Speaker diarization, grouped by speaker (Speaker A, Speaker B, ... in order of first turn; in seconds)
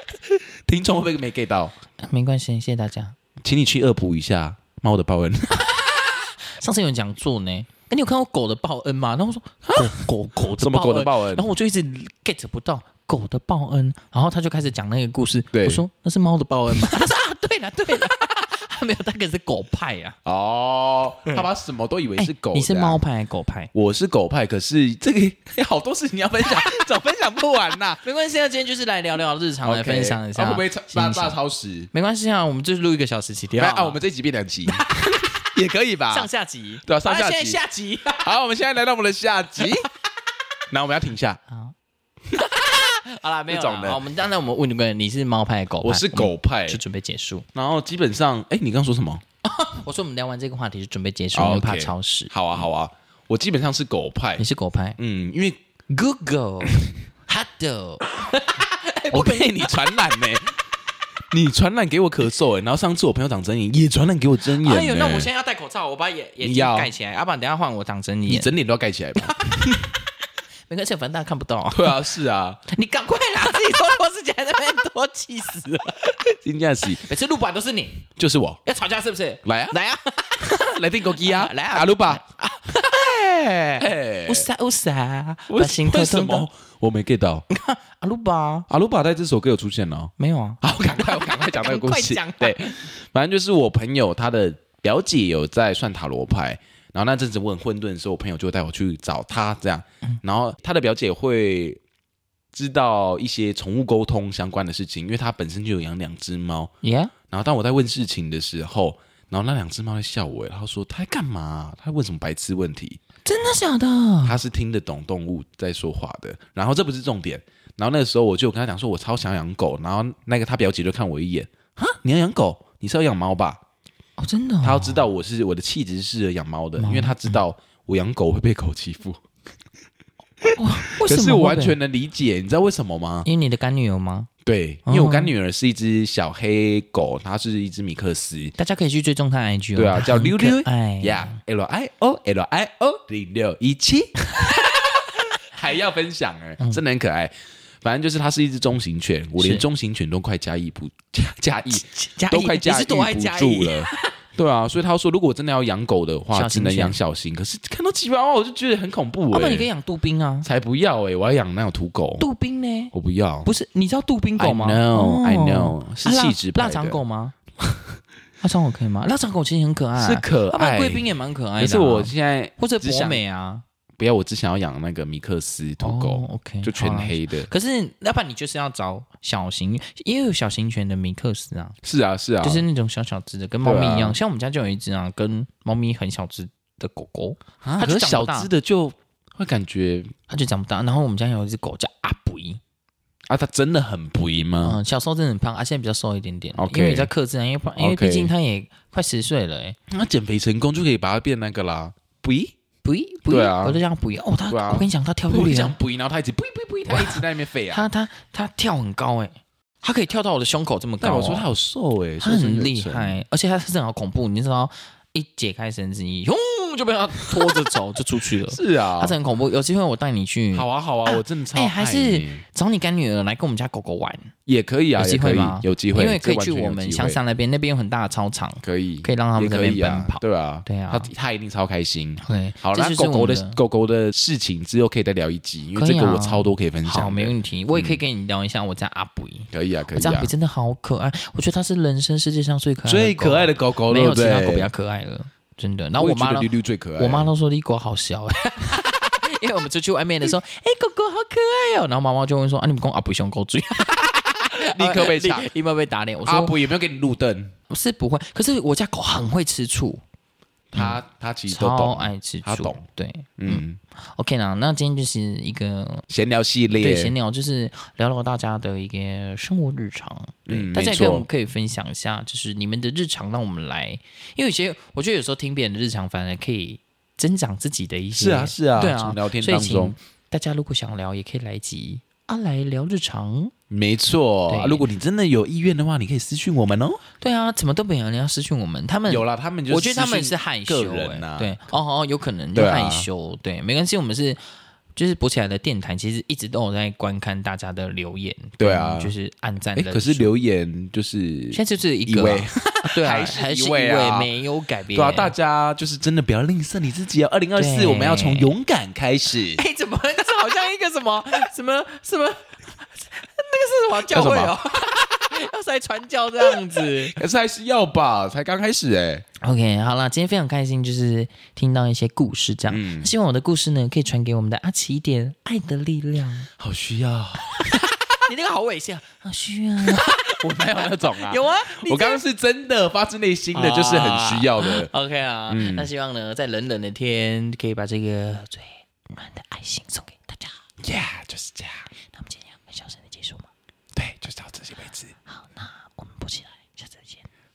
Speaker A: 0.3-1.7, 3.4-5.7, 9.7-10.0, 10.6-11.5, 15.5-15.8, 20.2-23.0, 23.7-28.0, 29.6-31.9, 33.6-36.3, 36.9-37.6, 38.1-39.9, 40.7-41.4, 43.5-44.0, 45.8-46.8, 47.5-49.2, 51.3-54.4, 55.0-55.6, 56.6-56.9, 59.1-60.6, 61.3-65.3, 66.4-66.9, 68.3-69.5, 71.7-72.6, 76.4-77.0, 78.2-78.6, 79.4-79.8, 80.4-82.2, 83.8-84.5, 85.5-87.4, 88.7-101.8, 102.5-106.7, 107.3-113.0, 114.2-123.6, 124.6-129.2, 130.4-133.3, 134.4-138.6, 139.8-144.2, 144.9-159.7, 160.4-162.2, 162.9-163.5, 164.4-167.0, 167.6-167.9, 169.9-171.1, 171.6-173.2, 174.0-177.5, 181.8-182.7, 183.6-184.2, 187.6-190.1, 193.3-194.8, 196.6-197.1, 197.8-198.3, 199.9-202.6, 203.3-203.8, 204.5-207.9, 211.0-213.2, 217.2-217.7, 218.5-219.2, 220.5-222.4, 224.5-227.2, 228.6-238.0, 239.5-240.3, 242.8-244.7, 246.0-247.3, 254.1-255.5, 256.2-257.5, 260.7-262.8, 263.4-263.8, 266.1-267.1, 270.5-271.3, 278.2-279.9, 283.7-287.0, 289.1-291.5, 292.6-293.1, 298.6-299.1, 299.8-304.3, 304.9-309.6, 314.1-314.6, 317.1-319.2, 322.7-323.1, 326.6-327.5, 329.8-334.9, 335.5-335.9, 340.8-341.9, 343.9-345.1
Speaker B: 2.0-3.1, 5.6-20.1, 22.2-23.7, 28.0-31.4, 31.9-34.0, 34.7-35.4, 36.1-38.3, 42.6-47.5, 49.4-52.6, 54.4-55.0, 55.9-59.9, 64.5-68.5, 69.2-70.0, 70.7-72.0, 72.7-76.2, 76.8-78.1, 78.6-86.5, 87.5-88.7, 90.2-92.7, 106.8-107.1, 113.2-114.4, 124.2-125.1, 126.8-127.4, 130.6-131.8, 133.2-134.3, 134.9-135.3, 138.6-141.4, 144.3-145.1, 149.4-149.7, 151.7-154.1, 156.3-157.0, 159.3-160.5, 162.2-162.9, 163.4-167.4, 168.4-173.6, 175.8-181.8, 182.4-188.5, 190.3-192.6, 194.6-199.8, 202.8-205.8, 206.9-211.5, 212.2-224.3, 225.0-231.1, 232.2-233.6, 235.8-256.6, 257.7-260.0, 260.8-266.1, 266.7-283.5, 284.5-284.9, 287.2-294.4, 294.9-300.3, 301.5-305.3, 307.6-308.5, 309.6-317.1, 319.4-326.5, 327.6-332.2, 333.5-340.5, 342.1-343.5, 345.3-347.2